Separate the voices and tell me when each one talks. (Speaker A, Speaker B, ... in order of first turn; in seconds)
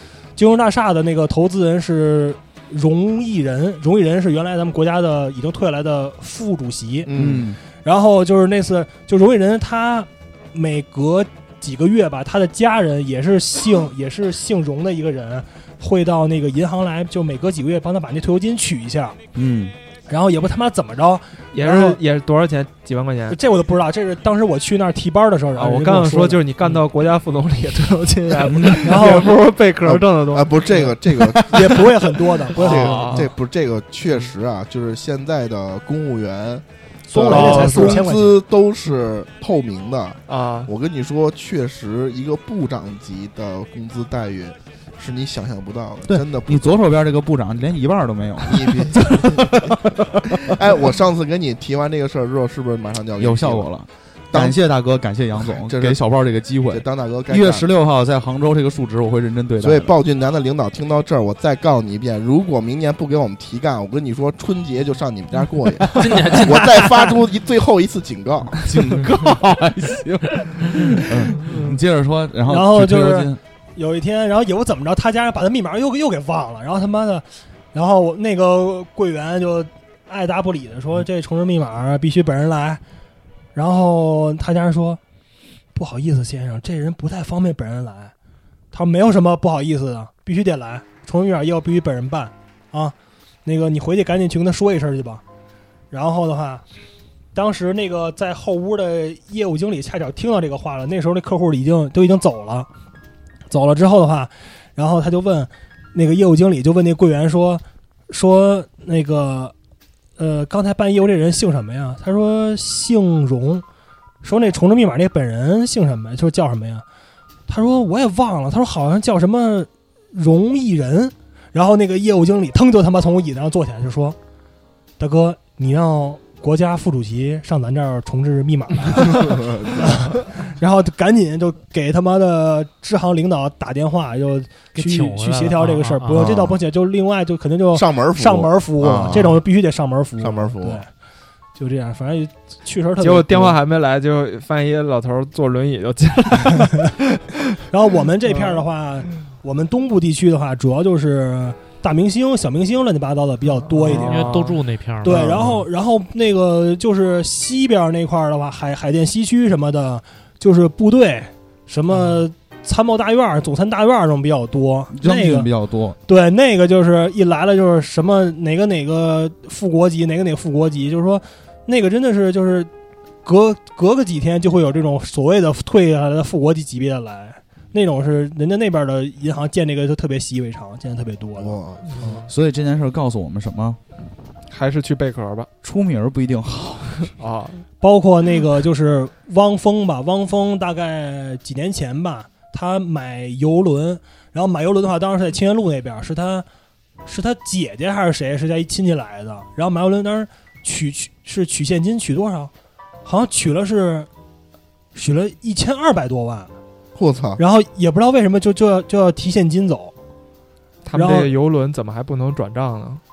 Speaker A: 0.4-7.1, 7.7-19.2, 20.1-22.0, 23.3-26.4, 28.8-29.4, 31.5-33.3, 37.1-38.4, 72.5-82.8, 83.5-85.0, 85.8-88.1, 88.7-95.2, 95.9-96.6, 97.3-102.7, 103.5-109.5, 110.2-113.6, 114.2-116.8, 117.5-124.2, 125.0-140.9, 141.6-143.6, 147.7-154.5, 155.0-165.5, 166.1-172.7, 173.2-182.2, 187.8-196.5, 197.1-202.5, 203.1-204.1, 204.9-206.5, 207.4-209.9, 210.9-211.3
Speaker B: 7.1-7.5, 29.8-31.9, 32.6-46.8, 48.4-49.7, 50.4-53.7, 54.3-54.6, 55.4-56.0, 56.7-57.7, 59.6-69.0, 129.1-130.1, 136.1-136.6, 137.7-139.4, 140.2-140.8, 181.4-181.9, 206.9-207.4
Speaker C: 7.1-7.6, 19.4-19.7, 28.5-28.9, 46.1-50.6, 53.2-59.9, 68.6-73.4, 164.9-166.0, 182.2-183.8, 185.6-187.1
Speaker D: 21.5-23.4, 25.6-31.9, 32.5-33.3, 37.2-38.1, 40.3-40.7, 143.0-147.4, 148.3-148.6, 153.7-154.6, 181.9-182.2, 184.5-185.5, 187.1-187.7, 210.8-213.0
Speaker E: 134.8-136.3, 153.9-155.6